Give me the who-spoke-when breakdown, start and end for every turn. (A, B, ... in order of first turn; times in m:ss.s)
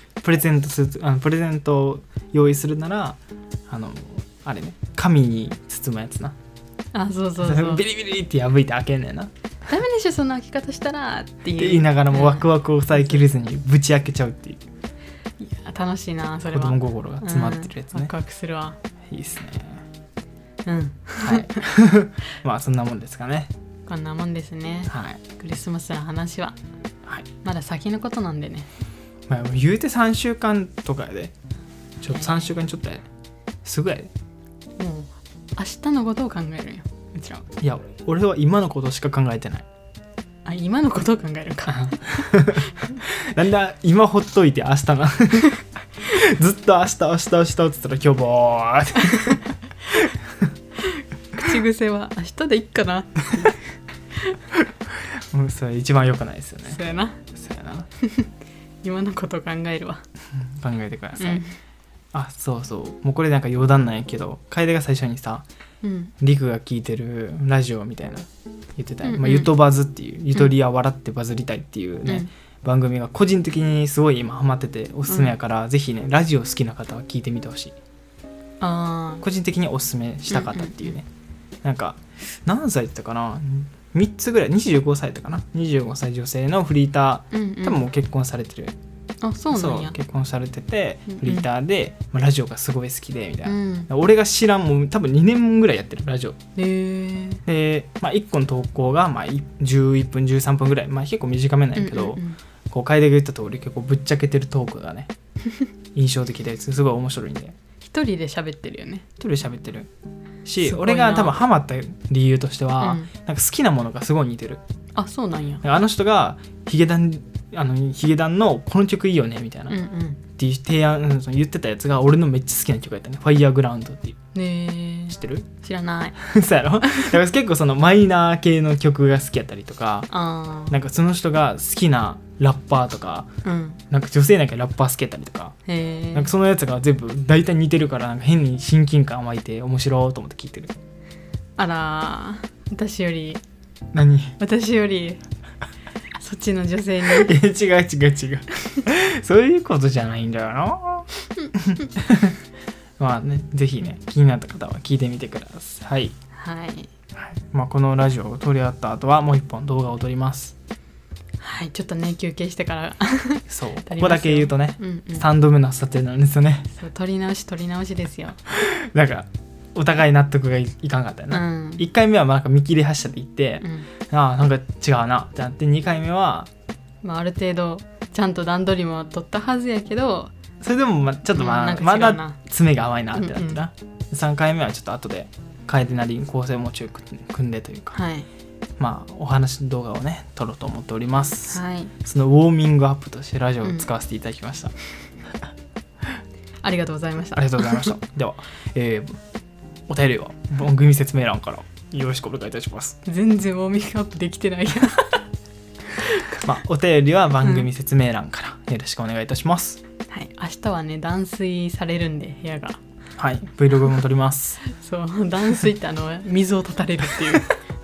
0:00.2-0:06.4 A
0:06.9-0:07.8 B
0:07.4-0:09.3 A
0:09.7-0:13.3 B
0:11.6-0:14.6 A
0:15.4-0:18.8 B
0:16.5-0:18.1 A
0:19.1-0:19.8 A
0:20.6-0:21.6 B
0:21.2-0:23.5 A
0:23.9-0:26.6 B
0:24.9-0:25.2 A
0:27.4-0:28.7 B
0:29.3-0:31.4 A
0:32.0-0:33.0 A
0:32.1-0:32.5 B
0:33.6-0:34.1 A
0:34.8-0:37.5 B
0:37.6-0:39.7 A
0:40.4-0:43.0 B
0:41.7-0:50.2 A
0:50.8-0:53.7 B
0:55.3-0:56.8 A
0:56.7-0:57.2 B
0:57.3-0:57.9 A
0:58.0-0:58.3 B
0:58.8-1:00.0 B
1:00.4-1:01.4 A
1:01.2-1:01.6 B
1:02.1-1:05.4 A
1:05.8-1:06.1 B
1:06.2-1:17.8 A
1:09.0-1:09.5 B
1:15.1-1:15.4 B
1:18.6-1:19.2 B
1:19.2-1:21.1 A
1:20.3-1:21.0 B
1:21.6-1:28.8 A
1:27.3-1:27.9 B
1:29.2-1:30.0 B
1:29.5-1:36.4 A
1:31.1-1:31.5 B
1:33.4-1:33.9 B
1:36.6-1:37.4 B
1:37.5-1:45.1 A
1:41.8-1:42.4 B
1:46.0-1:47.6 A
1:47.8-1:49.1 B
1:49.2-1:49.9 A
1:50.4-1:54.6 A
1:50.6-1:51.4 B
1:52.8-1:53.1 B
1:55.0-1:55.6 B
1:55.6-1:59.8 A
1:59.7-2:00.2 B
2:00.3-2:04.2 A
2:04.3-2:06.2 B
2:05.1-2:05.5 A
2:06.2-2:10.1 A
2:06.8-2:07.2 B
2:10.1-2:10.8 B
2:10.7-2:13.3 A
2:13.4-2:13.8 B
2:13.9-2:15.6 A
2:15.7-2:16.3 B
2:16.1-2:20.7 A
2:21.6-2:23.4 B
2:23.9-2:24.4 A
2:24.4-2:25.2 B
2:26.2-2:27.4 B
2:27.1-2:32.4 A
2:33.0-2:36.2 A
2:36.3-2:36.9 B
2:37.2-2:40.6 A
2:41.4-2:45.3 B
2:43.5-2:46.7 A
2:46.8-2:48.4 B
2:48.5-2:56.5 A
2:51.3-2:51.9 B
2:53.6-2:53.9 B
2:57.0-3:00.3 B
3:00.6-3:08.0 A
3:01.3-3:02.4 B
3:03.2-3:03.6 B
3:07.9-3:08.3 B
3:08.8-3:14.7 A
3:11.5-3:11.9 B
3:16.6-3:17.9 B
3:17.4-3:19.2 A
3:19.9-3:23.0 A
3:23.0-3:25.2 B
3:26.0-3:26.4 B
3:26.3-3:29.8 A
3:27.4-3:27.7 B
3:30.1-3:32.8 B
3:33.2-3:34.6 A
3:34.6-3:37.6 B